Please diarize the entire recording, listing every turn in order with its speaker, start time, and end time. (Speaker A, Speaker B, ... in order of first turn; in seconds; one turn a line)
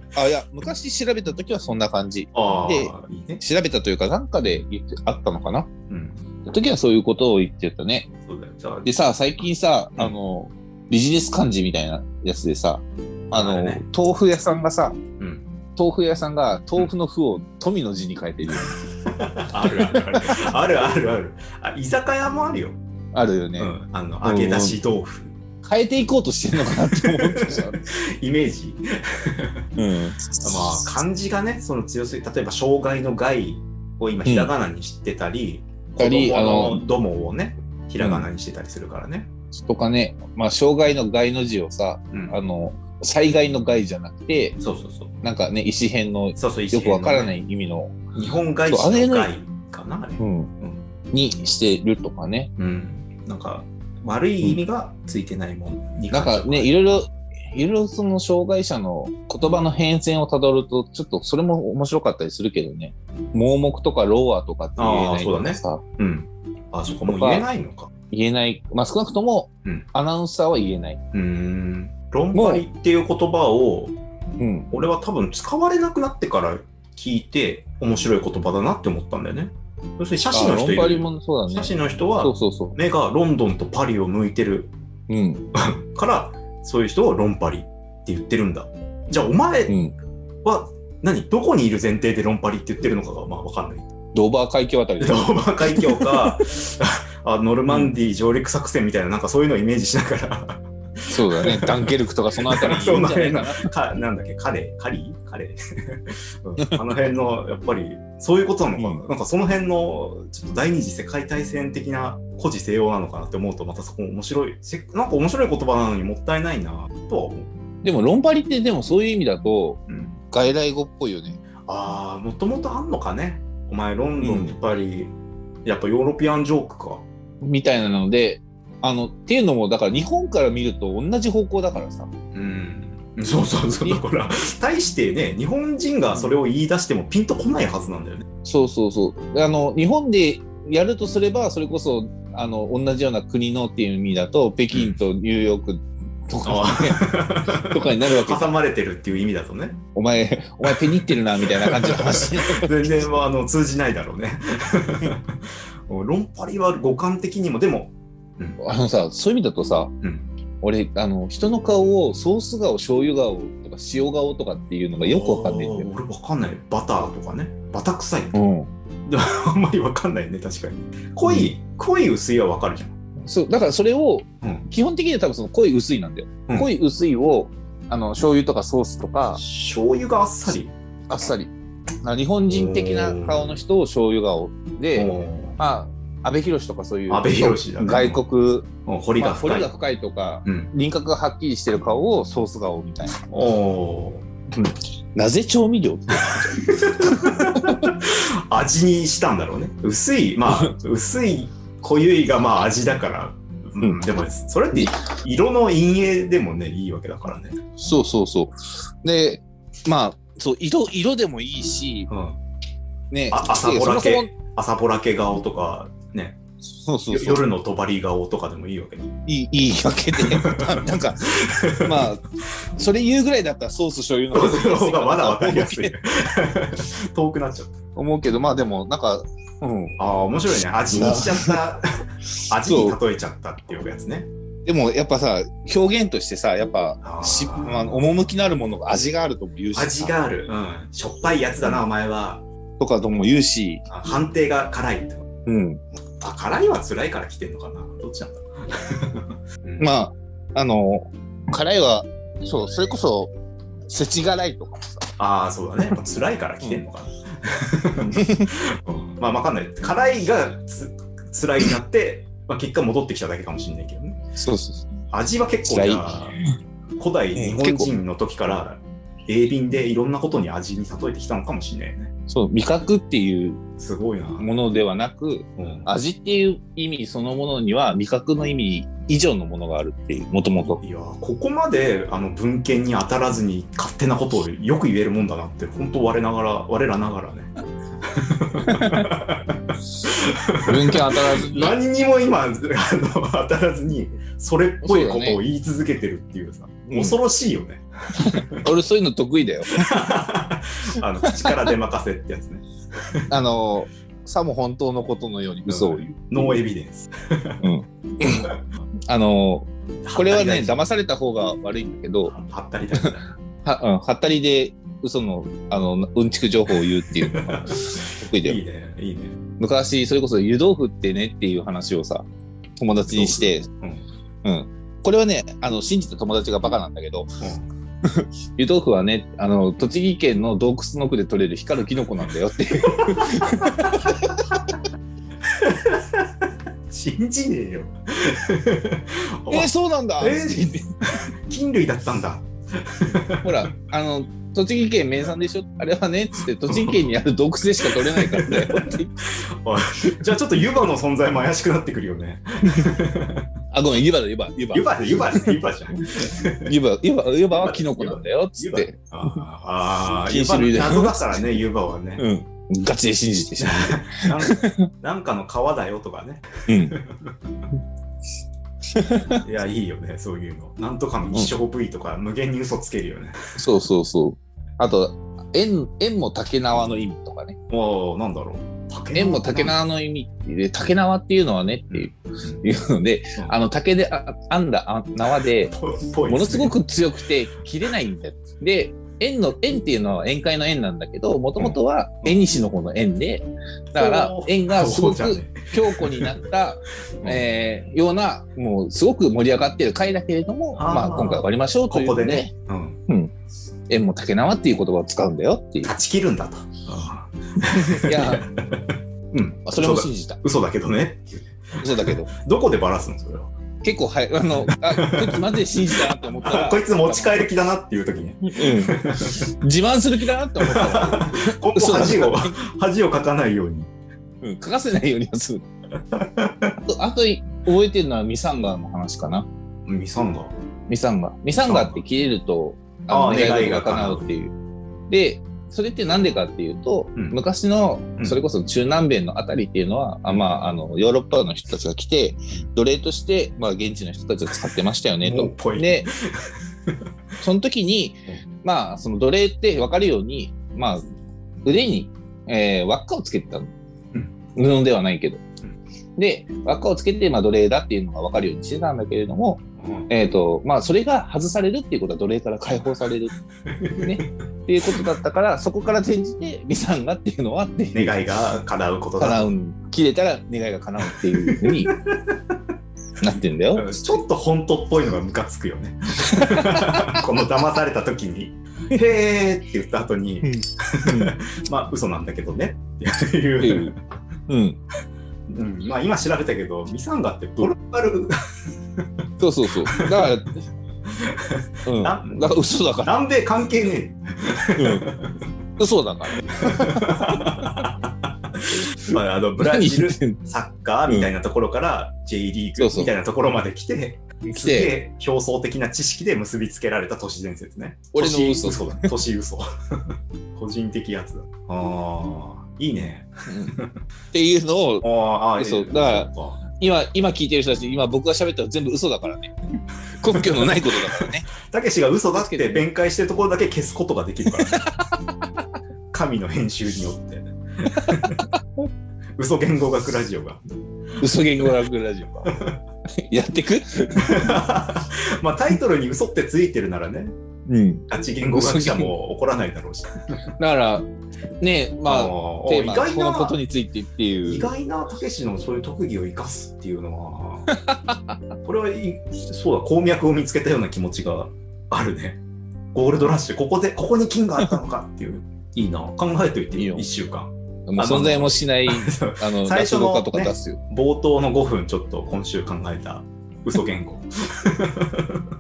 Speaker A: 0.1-5.7
Speaker B: 2.3-3.4
Speaker B: 5.9-6.2
Speaker A: 6.5-8.1
Speaker B: 8.2-8.9
Speaker A: 8.8-15.0
Speaker B: 13.3-13.8
Speaker B: 15.2-15.4
Speaker A: 15.8-18.8
Speaker B: 19.1-22.8
Speaker A: 19.8-20.2
Speaker A: 23.1-23.7
Speaker B: 23.6-25.3
Speaker A: 24.2-24.8
Speaker A: 25.6-27.8
Speaker B: 27.0-29.6
Speaker A: 29.8-30.9
Speaker B: 30.4-39.3
Speaker A: 34.2-34.5
Speaker A: 36.0-36.8
Speaker A: 38.0-38.3
Speaker A: 39.5-44.6
Speaker B: 42.1-42.4
Speaker B: 44.6-45.1
Speaker A: 45.2-48.1
Speaker B: 46.4-47.3
Speaker B: 48.1-50.8
Speaker A: 48.7-49.3
Speaker A: 50.2-50.5
Speaker A: 51.1-52.5
Speaker B: 52.6-57.0
Speaker A: 56.1-65.8
Speaker B: 64.8-67.9
Speaker A: 67.1-67.5
Speaker A: 68.1-71.0
Speaker B: 71.1-73.9
Speaker A: 72.3-72.6
Speaker A: 74.4-74.7
Speaker B: 74.7-84.7
Speaker A: 80.3-82.8
Speaker A: 85.1-85.5
Speaker B: 85.5-89.8
Speaker A: 89.7-89.9
Speaker B: 90.4-93.9
Speaker A: 94.1-96.2
Speaker B: 95.0-101.8
Speaker A: 97.7-97.9
Speaker A: 101.1-103.7
Speaker B: 102.5-117.5
Speaker A: 108.8-109.0
Speaker A: 117.8-119.8
Speaker B: 119.9-120.2
Speaker A: 120.3-121.4
Speaker B: 121.7-125.1
Speaker A: 124.2-124.5
Speaker B: 125.6-127.0
Speaker A: 127.4-132.1
Speaker B: 132.3-138.2
Speaker A: 138.4-148.5
Speaker B: 144.7-145.0
Speaker B: 146.4-149.8
Speaker A: 149.9-153.1
Speaker B: 150.6-158.6
Speaker A: 158.6-159.9
Speaker B: 160.0-160.3
Speaker A: 160.6-165.9
Speaker B: 165.0-168.4
Speaker A: 168.3-168.7
Speaker B: 169.1-172.9
Speaker A: 171.2-171.5
Speaker A: 173.2-179.4
Speaker B: 174.4-174.7
Speaker B: 179.3-180.7
Speaker A: 181.1-181.5
Speaker A: 182.0-193.2
Speaker B: 182.5-183.6
Speaker B: 184.9-185.6
Speaker B: 187.1-188.2
Speaker B: 188.8-189.7
Speaker B: 190.4-190.7
Speaker B: 193.3-194.2
Speaker A: 194.5-197.9
Speaker B: 196.5-207.6
Speaker A: 207.8-212.1
Speaker B: 212.1-212.4
Speaker A: 213.1-214.3
Speaker B: 213.3-216.4
Speaker A: 216.7-217.4
Speaker B: 217.1-219.1
Speaker A: 219.2-222.2
Speaker B: 220.2-222.0
Speaker A: 222.8-225.9
Speaker B: 224.3-227.7
Speaker A: 227.9-230.0
Speaker B: 230.0-231.8
Speaker A: 230.9-231.6
Speaker B: 232.5-234.3
Speaker A: 232.6-233.0
Speaker A: 234.7-240.1
Speaker B: 237.0-238.0
Speaker B: 239.7-242.4
Speaker A: 242.8-243.9
Speaker B: 243.9-245.3
Speaker A: 245.4-245.8
Speaker B: 246.2-249.9
Speaker A: 249.8-253.3
Speaker A: 253.9-255.0
Speaker B: 255.2-264.2
Speaker A: 258.0-258.5
Speaker A: 264.4-264.9
Speaker B: 265.1-266.4
Speaker A: 265.7-266.3
Speaker B: 267.0-272.1
Speaker A: 267.3-267.9
Speaker A: 272.3-273.6
Speaker B: 273.8-274.5
Speaker A: 274.4-280.8
Speaker B: 275.6-275.9
Speaker B: 280.8-287.5
Speaker B: 288.1-298.6
Speaker A: 288.7-289.1
Speaker A: 290.6-291.8
Speaker A: 294.8-295.4
Speaker A: 296.9-297.2
Speaker A: 298.2-300.0
Speaker B: 299.7-303.3
Speaker A: 301.4-301.7
Speaker A: 303.3-306.6
Speaker B: 305.7-307.6
Speaker A: 307.6-308.5
Speaker B: 308.2-308.5
Speaker A: 309.1-312.3
Speaker B: 310.0-310.7
Speaker B: 312.2-313.2
Speaker A: 313.6-318.6
Speaker B: 316.7-319.3
Speaker A: 319.6-322.3
Speaker A: 322.8-323.7
Speaker B: 323.1-324.0
Speaker A: 324.4-327.3
Speaker B: 327.4-327.7
Speaker A: 328.1-334.4
Speaker B: 333.0-334.0
Speaker B: 335.6-336.2
Speaker B: 336.9-343.7
Speaker A: 339.5-340.9
Speaker A: 343.3-349.2
Speaker B: 346.7-347.1
Speaker B: 347.8-353.4
Speaker A: 353.7-355.6
Speaker B: 354.7-356.7
Speaker A: 356.6-359.4
Speaker B: 357.5-362.2
Speaker A: 360.2-361.6
Speaker A: 362.2-364.7
Speaker B: 363.6-367.3
Speaker A: 366.7-367.0
Speaker A: 368.9-369.4
Speaker B: 369.4-373.4
Speaker A: 373.6-377.6
Speaker B: 377.7-379.8
Speaker A: 379.1-385.7
Speaker B: 381.9-382.6
Speaker B: 385.6-386.8
Speaker A: 386.3-402.5
Speaker B: 391.6-392.4
Speaker B: 393.9-396.4
Speaker B: 397.2-397.4
Speaker B: 400.8-403.0
Speaker A: 403.1-403.3
Speaker A: 403.9-405.9
Speaker B: 405.8-408.8
Speaker A: 407.7-408.5
Speaker B: 409.3-413.5
Speaker A: 409.6-410.4
Speaker A: 411.8-412.3
Speaker A: 413.8-417.5
Speaker B: 414.6-419.5
Speaker A: 418.5-422.5
Speaker B: 420.6-423.9
Speaker A: 424.4-425.6
Speaker B: 426.1-426.8
Speaker A: 426.9-429.5
Speaker B: 429.9-430.5
Speaker A: 430.9-434.5
Speaker B: 431.6-432.0
Speaker B: 433.1-434.3
Speaker A: 435.1-446.1
Speaker B: 440.2-440.7
Speaker B: 445.2-446.9
Speaker A: 447.4-451.0
Speaker A: 451.6-453.7
Speaker A: 454.5-455.4
Speaker A: 456.2-463.3
Speaker B: 459.8-460.1
Speaker B: 463.7-464.3
Speaker A: 464.0-468.2
Speaker B: 467.9-469.5
Speaker A: 469.2-471.9
Speaker B: 471.1-472.3
Speaker A: 473.2-474.2
Speaker B: 473.7-484.0
Speaker A: 476.3-477.2
Speaker A: 480.4-481.3
Speaker A: 483.6-483.9
Speaker A: 484.5-484.8
Speaker B: 485.5-488.3
Speaker A: 489.4-490.6
Speaker B: 489.9-490.2
Speaker B: 491.1-495.3
Speaker A: 491.9-493.1
Speaker A: 494.8-495.1
Speaker A: 495.8-497.8
Speaker B: 496.5-509.7
Speaker A: 498.7-500.4
Speaker A: 502.8-503.1
Speaker A: 504.4-504.9
Speaker A: 508.1-509.1
Speaker B: 510.6-513.9
Speaker A: 513.5-513.7
Speaker A: 514.3-519.5
Speaker B: 515.0-516.6
Speaker A: 520.2-521.5
Speaker B: 520.3-524.8
Speaker A: 522.3-522.8
Speaker B: 526.1-528.5
Speaker A: 527.9-528.2
Speaker B: 529.4-530.6
Speaker A: 531.2-532.5
Speaker B: 532.4-532.8
Speaker A: 533.2-534.6
Speaker B: 534.2-537.3
Speaker A: 537.7-539.1
Speaker B: 538.1-540.4
Speaker A: 540.6-541.1
Speaker A: 541.6-544.7
Speaker B: 542.0-543.6
Speaker B: 544.5-547.7
Speaker A: 547.9-548.2
Speaker B: 548.6-552.4
Speaker B: 552.9-565.4
Speaker A: 556.7-557.1
Speaker A: 557.9-560.8